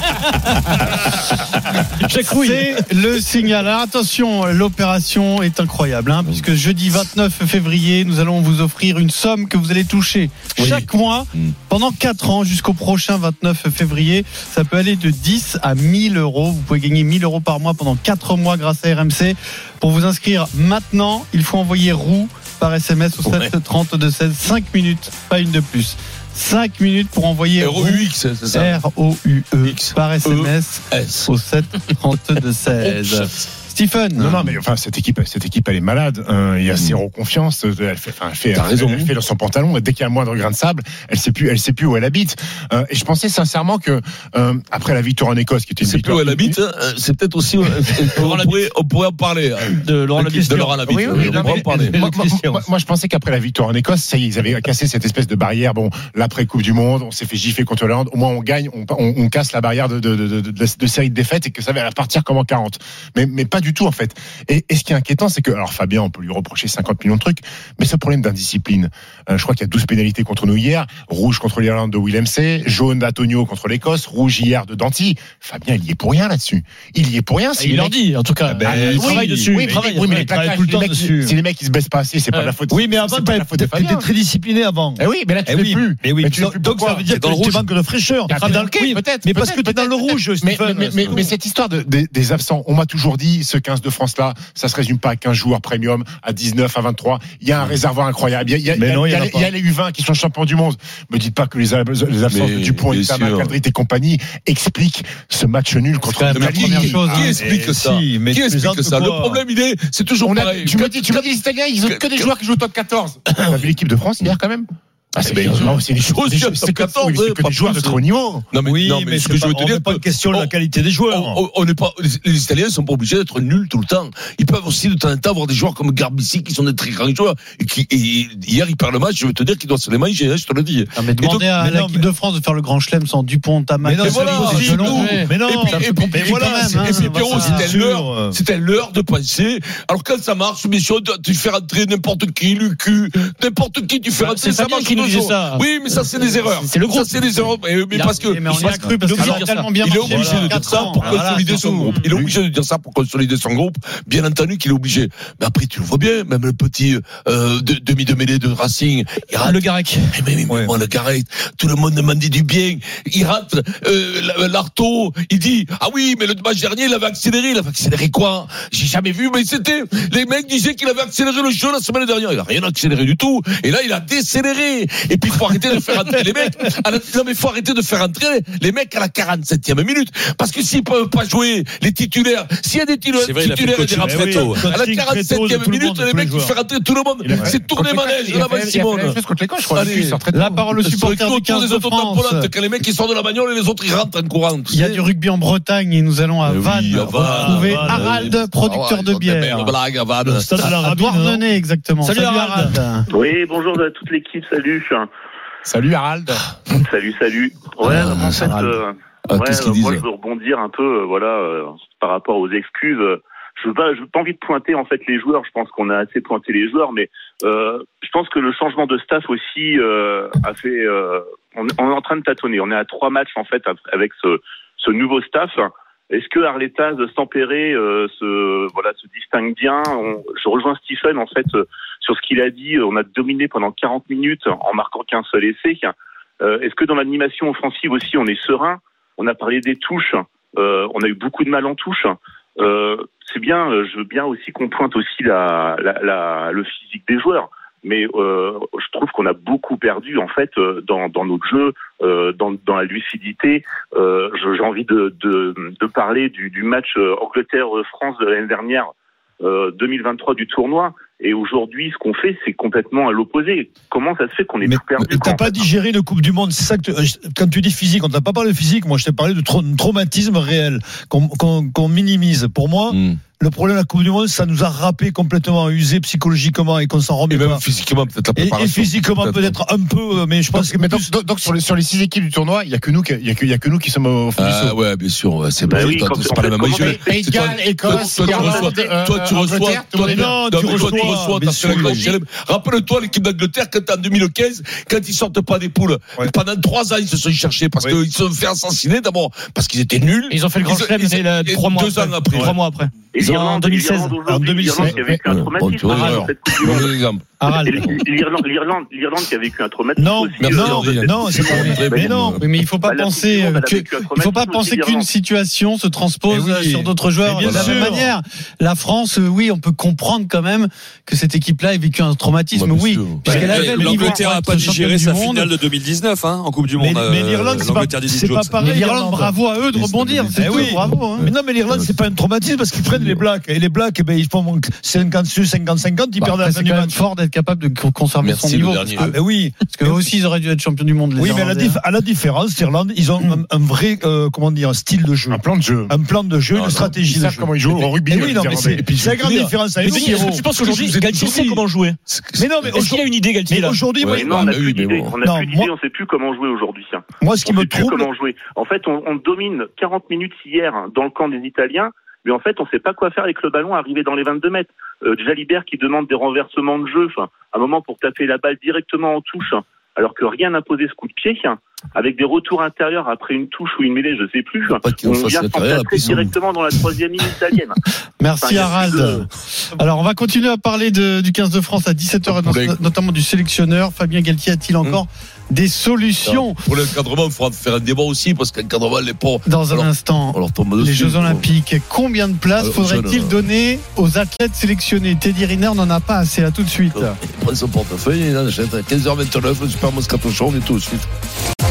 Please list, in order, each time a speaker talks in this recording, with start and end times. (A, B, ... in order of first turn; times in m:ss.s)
0:02.0-0:02.8 A
0:02.3-0:34.4 B
0:10.6-0:11.5 C
0:23.2-0:23.5 C
0:27.6-0:28.8 C
0:29.6-0:31.3 C
0:32.8-0:33.3 C
0:34.2-0:46.6 D
0:38.5-0:39.1 C
0:45.8-0:52.0 C
0:49.8-0:50.7 A
0:50.2-0:52.6 E
0:50.9-1:18.0 D
1:17.6-1:20.2 A
1:18.5-1:21.3 E
1:18.6-1:24.1 D
1:22.7-1:31.3 E
1:25.0-1:27.1 D
1:27.2-1:27.6 F
1:28.3-1:47.4 D
1:38.7-1:39.5 E
1:42.3-1:43.5 C
1:46.1-1:47.3 B
1:46.3-1:51.3 C
1:47.2-1:49.4 E
1:50.2-1:58.4 D
1:51.8-1:52.3 C
1:53.3-1:53.7 C
1:55.2-2:00.5 C
1:58.6-2:01.4 E
2:01.1-2:11.4 C
2:10.9-2:17.7 B
2:11.5-2:12.0 E
2:13.8-2:18.4 E
2:14.0-3:09.2 C
2:14.8-2:15.3 A
2:24.2-2:25.6 A
2:26.5-2:27.1 A
2:28.0-2:31.9 B
2:28.5-2:30.2 A
2:30.1-2:30.6 E
2:39.4-2:40.1 A
3:03.9-3:06.5 E
3:07.2-3:10.6 D
3:09.7-3:10.2 C
3:10.3-3:12.5 B
3:10.8-3:15.0 C
3:14.7-3:19.7 B
3:16.4-3:20.8 C
3:17.1-3:18.3 E
3:20.2-3:21.4 E
3:20.6-3:23.0 B
3:22.0-3:22.7 A
3:23.1-3:25.1 G
3:25.6-3:26.4 D
3:26.7-4:18.9 G
3:27.9-3:28.5 C
3:27.9-3:28.7 E
3:29.3-3:30.0 C
4:19.4-4:25.6 G
4:24.6-4:37.6 E
4:32.9-4:33.2 C
4:37.3-4:39.6 C
4:38.4-4:41.1 E
4:40.5-4:44.8 D
4:44.4-5:02.5 C
4:45.6-4:47.4 G
4:46.8-4:51.1 D
4:50.0-4:52.1 E
5:00.3-5:04.1 A
5:03.1-5:06.9 G
5:04.2-5:05.1 E
5:04.8-5:05.2 D
5:05.2-5:07.4 C
5:07.4-5:07.8 B
5:07.5-5:12.2 G
5:10.0-5:12.4 E
5:10.4-5:12.4 C
5:12.4-5:25.5 B
5:12.8-5:15.1 G
5:16.3-5:18.1 E
5:17.4-5:18.0 C
5:22.5-5:23.8 C
5:23.2-5:28.7 F
5:23.3-5:24.2 E
5:26.8-5:29.3 E
5:28.6-5:31.3 B
5:29.7-5:31.9 C
5:30.3-5:37.0 E
5:32.8-5:33.2 C
5:36.2-5:41.8 B
5:38.2-5:39.1 C
5:39.0-5:39.9 E
5:41.2-5:47.5 E
5:45.3-5:45.9 D
5:46.5-5:47.0 C
5:47.0-5:48.8 D
5:48.1-5:50.4 E
5:48.2-5:52.7 C
5:49.8-5:52.0 A
5:52.4-5:54.6 E
5:52.7-5:53.9 A
5:54.0-5:55.1 C
5:54.1-6:17.8 G
5:55.2-5:55.7 E
5:57.2-5:58.1 E
6:14.8-6:16.9 C
6:18.2-6:19.2 B
6:18.4-6:19.2 G
6:19.8-6:26.6 B
6:22.3-6:22.8 C
6:26.2-6:31.4 C
6:29.4-6:37.2 B
6:32.6-6:33.4 C
6:36.9-6:41.1 C